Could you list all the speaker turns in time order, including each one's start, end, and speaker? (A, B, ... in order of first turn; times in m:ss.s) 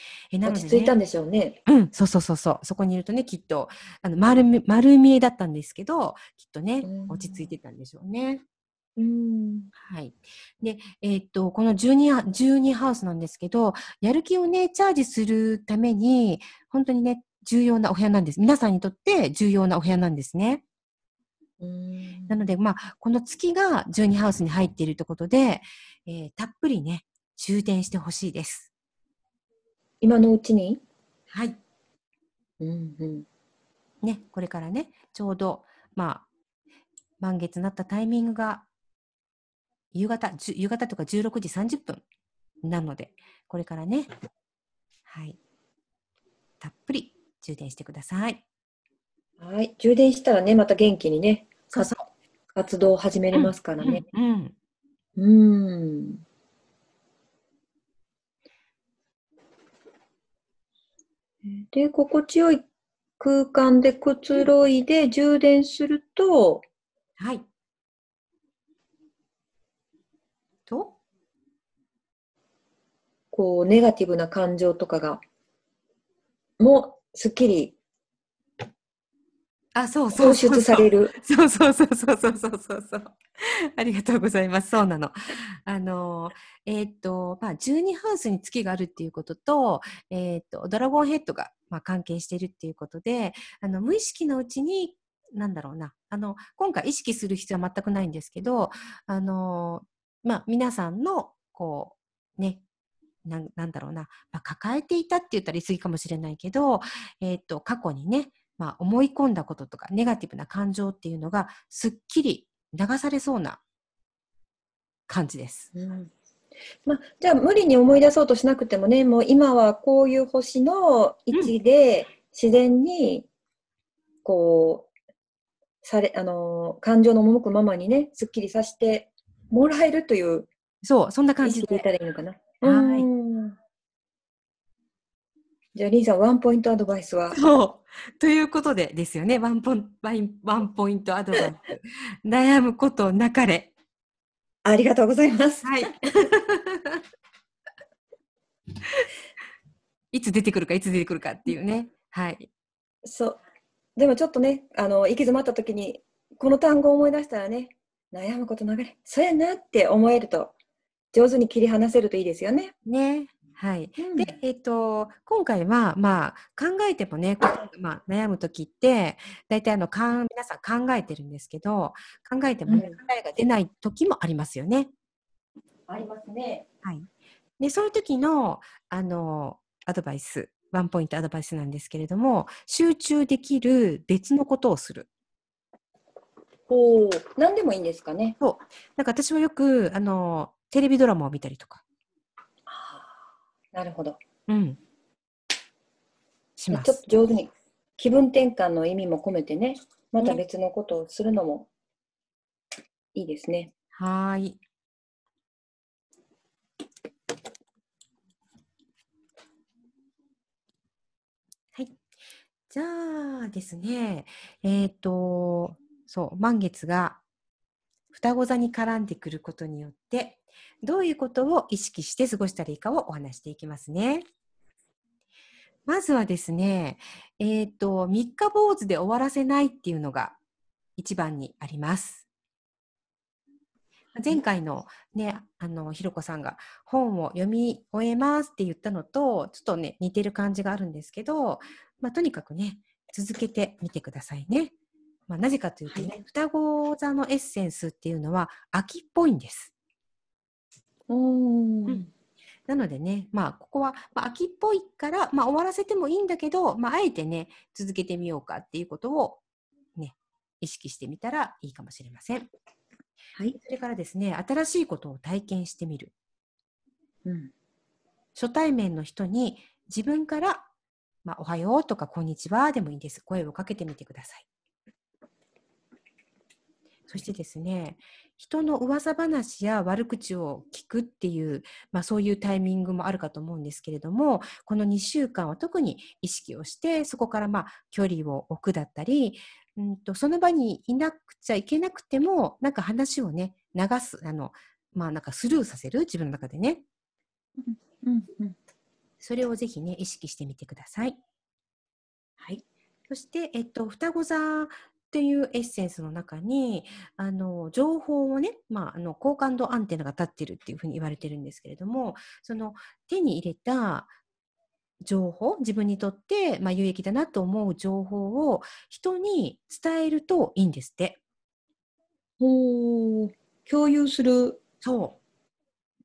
0:00.3-0:00.9 A
0:00.4-0:01.6 B
0:01.7-0:08.4 A
0:06.8-0:07.5 B
0:09.0-0:09.7 B
0:09.8-0:20.6 A
0:21.6-0:22.5 B
0:22.3-0:28.7 A
0:30.0-0:30.8 B
0:31.3-0:31.6 A
0:32.6-0:33.3 B
0:34.0-0:36.2 A
0:37.2-0:38.7 A
0:39.9-0:42.0 A
0:42.6-0:44.1 A
0:45.1-0:45.4 A
0:46.6-0:48.4 A
0:49.4-0:51.9 B
0:51.7-0:52.0 A
0:52.6-0:54.0 B
0:53.3-0:54.5 A
0:55.2-0:56.2 B
1:01.4-1:02.6 B
1:03.2-1:06.6 B
1:07.2-1:07.5 A
1:10.7-1:11.0 A
1:13.3-1:15.2 B
1:16.6-1:17.8 B
1:19.8-1:42.6 A
1:20.1-1:21.1 B
1:43.2-1:53.6 A
1:55.1-1:55.7 A
1:55.7-1:56.1 B
1:56.9-2:03.3 B
2:04.2-2:04.9 B
2:05.8-2:10.5 B
2:10.8-2:11.9 A
2:11.4-2:13.6 B
2:12.6-2:13.1 A
2:15.8-2:17.4 B
2:17.3-2:23.7 A
2:24.6-2:25.9 B
2:25.6-2:27.0 A
2:30.1-2:32.5 A
2:33.0-2:33.4 B
2:34.0-2:40.5 B
2:41.1-2:42.7 B
2:42.8-2:54.9 A
2:44.0-2:44.3 B
2:52.7-2:53.0 B
2:55.9-2:56.6 B
2:57.6-3:05.1 A
3:06.7-3:08.4 B
3:08.4-3:11.8 A
3:12.7-3:13.2 B
3:13.7-3:14.2 B
3:14.5-3:14.8 A
3:16.6-3:17.0 A
3:16.7-3:21.7 B
3:23.1-3:23.7 B
3:23.9-3:24.6 A
3:31.7-3:32.0 A
3:32.7-3:37.2 A
3:38.1-3:44.2 A
3:45.9-3:50.4 A
3:51.0-3:52.2 A
3:54.2-4:04.7 A
4:05.3-4:09.7 A
4:05.9-4:06.2 B
4:11.1-4:12.1 B
4:12.7-4:19.4 A
4:20.0-4:22.5 A
4:23.6-4:26.1 A
4:27.2-4:27.5 B
4:28.4-4:30.7 A
4:31.2-4:34.5 A
4:37.1-4:56.8 A
4:57.6-4:58.6 B
4:59.2-5:01.2 A
5:03.1-5:14.1 A
5:15.0-5:21.2 A
5:22.4-5:24.6 B
5:24.8-5:25.2 A